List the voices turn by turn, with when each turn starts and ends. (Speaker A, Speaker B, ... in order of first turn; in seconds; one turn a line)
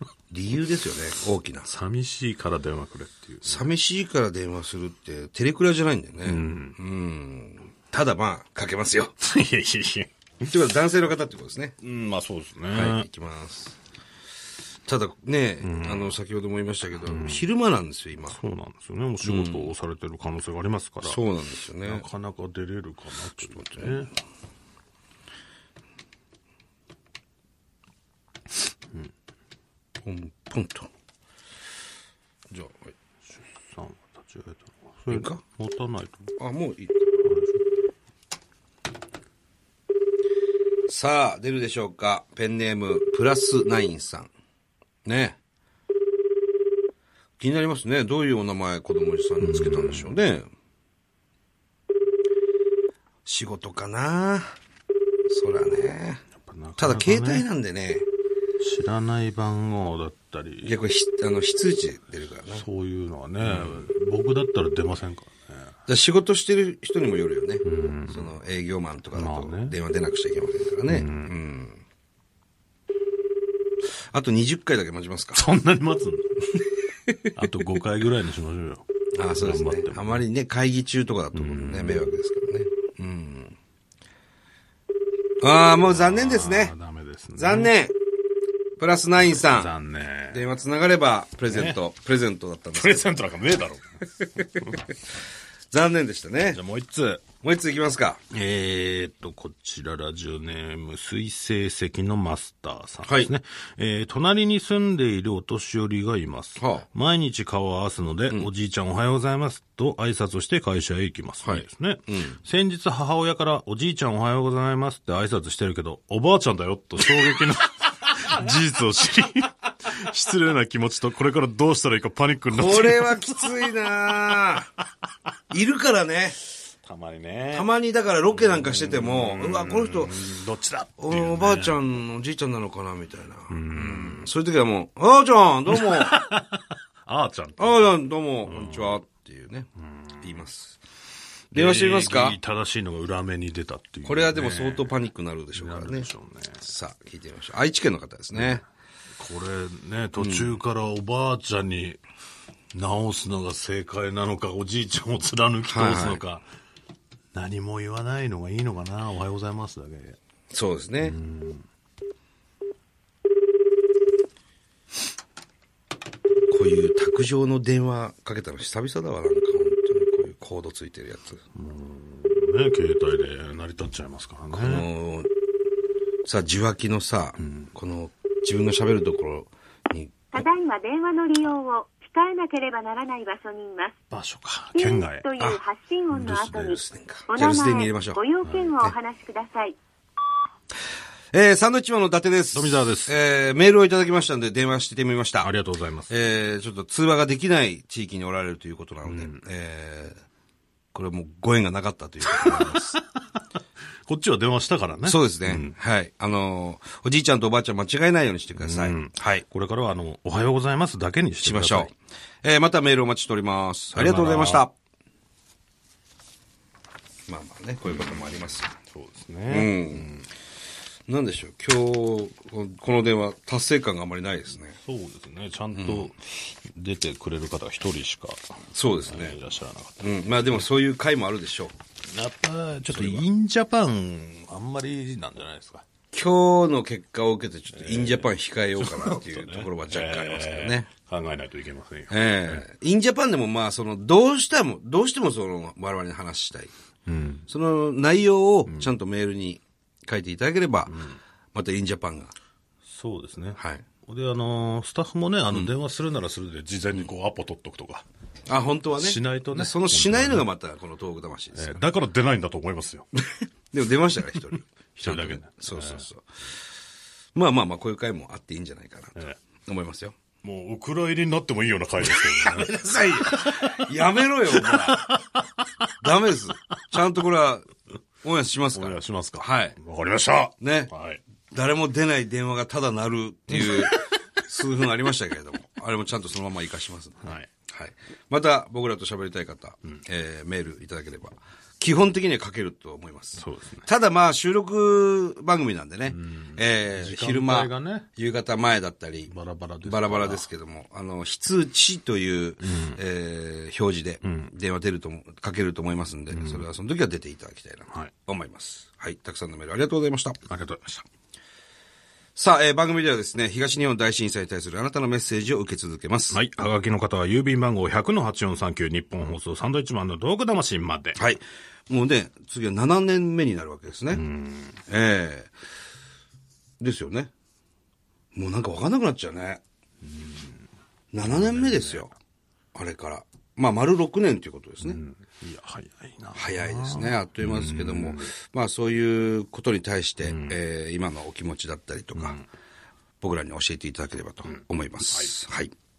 Speaker A: 0.3-1.7
Speaker B: 1.7-3.7
Speaker A: 3.4-9.1
Speaker B: 6.2-6.8
Speaker B: 9.2-10.5
Speaker A: 10.4-11.8
Speaker B: 11.8-13.1
Speaker A: 12.7-13.8
Speaker A: 14.9-18.4
Speaker B: 15.6-16.2
Speaker B: 16.9-17.5
Speaker B: 18.3-21.2
Speaker A: 19.2-19.7
Speaker A: 21.0-22.1
Speaker B: 21.8-24.1
Speaker A: 23.4-24.0
Speaker A: 30.0-30.9
Speaker A: 32.5-32.9
Speaker B: 33.3-36.3
Speaker A: 35.1-35.4
Speaker A: 36.4-37.0
Speaker B: 37.2-37.6
Speaker A: 40.9-44.3
Speaker A: 45.0-45.4
Speaker A: 47.4-50.5
Speaker B: 49.4-50.2
Speaker A: 53.2-54.5
Speaker A: 55.3-56.2
Speaker B: 56.4-57.5
Speaker A: 56.8-58.1
Speaker B: 58.6-60.7
Speaker A: 60.6-62.6
Speaker B: 62.5-65.7
Speaker A: 63.4-63.9
Speaker A: 65.9-71.8
Speaker B: 67.6-68.3
Speaker B: 69.1-69.8
Speaker B: 70.9-71.3
Speaker A: 74.1-75.4
Speaker B: 75.3-76.7
Speaker B: 77.3-78.9
Speaker A: 79.1-83.6
Speaker B: 79.4-80.3
Speaker B: 81.3-82.2
Speaker A: 85.4-86.7
Speaker B: 85.7-87.7
Speaker A: 87.4-87.9
Speaker A: 88.8-89.7
Speaker B: 89.2-90.5
Speaker A: 90.3-93.1
Speaker B: 91.5-91.8
Speaker B: 92.8-94.8
Speaker A: 95.7-96.6
Speaker B: 96.5-97.2
Speaker A: 97.4-98.2
Speaker B: 98.3-124.4
Speaker A: 103.0-103.3
Speaker A: 106.6-106.9
Speaker A: 111.4-112.4
Speaker A: 122.5-124.7
Speaker A: 125.5-126.4
Speaker B: 126.8-127.7
Speaker A: 127.5-130.1
Speaker B: 128.3-131.8
Speaker A: 131.0-136.1
Speaker B: 133.5-134.3
Speaker B: 135.7-139.0
Speaker A: 137.6-139.7
Speaker B: 139.8-140.4
Speaker A: 140.2-140.8
Speaker B: 141.5-144.9
Speaker A: 141.5-142.4
Speaker A: 144.1-146.1
Speaker B: 145.6-146.7
Speaker A: 146.6-148.6
Speaker B: 148.3-148.6
Speaker B: 149.2-152.0
Speaker A: 150.2-150.6
Speaker B: 152.7-156.4
Speaker A: 155.7-156.2
Speaker B: 157.3-160.2
Speaker A: 160.5-161.2
Speaker B: 161.0-161.7
Speaker A: 166.5-171.4
Speaker B: 171.6-174.9
Speaker A: 174.5-175.3
Speaker A: 176.2-180.5
Speaker B: 177.4-177.7
Speaker C: 180.3-184.0
Speaker B: 184.1-185.3
Speaker C: 184.7-189.8
Speaker B: 186.1-186.8
Speaker A: 186.6-188.2
Speaker B: 188.4-188.8
Speaker A: 191.3-195.5
Speaker B: 192.5-193.1
Speaker B: 195.4-196.1
Speaker A: 196.1-200.2
Speaker B: 199.0-199.4
Speaker A: 200.9-203.0
Speaker B: 202.2-203.4
Speaker B: 204.1-205.8
Speaker A: 205.1-209.4
Speaker B: 208.6-211.9
Speaker A: 211.4-214.7
Speaker B: 213.9-214.7
Speaker A: 217.3-218.7
Speaker B: 217.9-218.3
Speaker B: 218.8-220.3
Speaker A: 219.5-220.1
Speaker A: 221.1-224.8
Speaker B: 224.8-230.7
Speaker A: 225.7-226.1
Speaker A: 228.7-229.4
Speaker A: 230.0-231.8
Speaker B: 232.1-235.8
Speaker A: 232.9-233.3
Speaker A: 236.1-240.9
Speaker B: 237.7-242.6
Speaker A: 242.1-246.7
Speaker B: 247.1-247.5
Speaker A: 247.5-250.9
Speaker B: 248.7-248.9
Speaker B: 250.9-251.2
Speaker A: 251.5-252.3
Speaker B: 252.9-258.0
Speaker A: 253.6-253.8
Speaker A: 258.5-261.8
Speaker B: 259.0-260.5
Speaker B: 261.5-263.1
Speaker A: 263.7-266.2
Speaker B: 265.0-266.1
Speaker A: 267.4-270.2
Speaker B: 270.4-273.9
Speaker A: 272.4-275.1
Speaker B: 274.5-275.9
Speaker A: 276.0-277.7
Speaker A: 278.2-279.8
Speaker B: 278.7-281.2
Speaker A: 280.6-280.9
Speaker A: 281.5-299.3
Speaker B: 283.5-284.1
Speaker B: 287.2-287.5
Speaker B: 293.4-293.9
Speaker B: 296.1-298.1
Speaker B: 299.3-300.5
Speaker A: 299.8-310.4
Speaker B: 302.6-303.0
Speaker B: 304.2-304.5
Speaker B: 306.3-306.7
Speaker B: 310.4-311.1
Speaker A: 312.4-316.4
Speaker B: 316.3-321.2
Speaker A: 321.2-324.2
Speaker B: 324.1-324.8
Speaker A: 324.9-325.5
Speaker A: 326.8-327.3
Speaker A: 328.4-329.6
Speaker B: 330.0-330.6
Speaker A: 331.1-332.1
Speaker B: 331.3-332.1
Speaker A: 332.8-335.0
Speaker B: 334.8-338.3
Speaker A: 336.4-342.4
Speaker B: 340.2-340.6
Speaker B: 342.1-342.4
Speaker A: 343.2-345.7
Speaker B: 344.5-345.4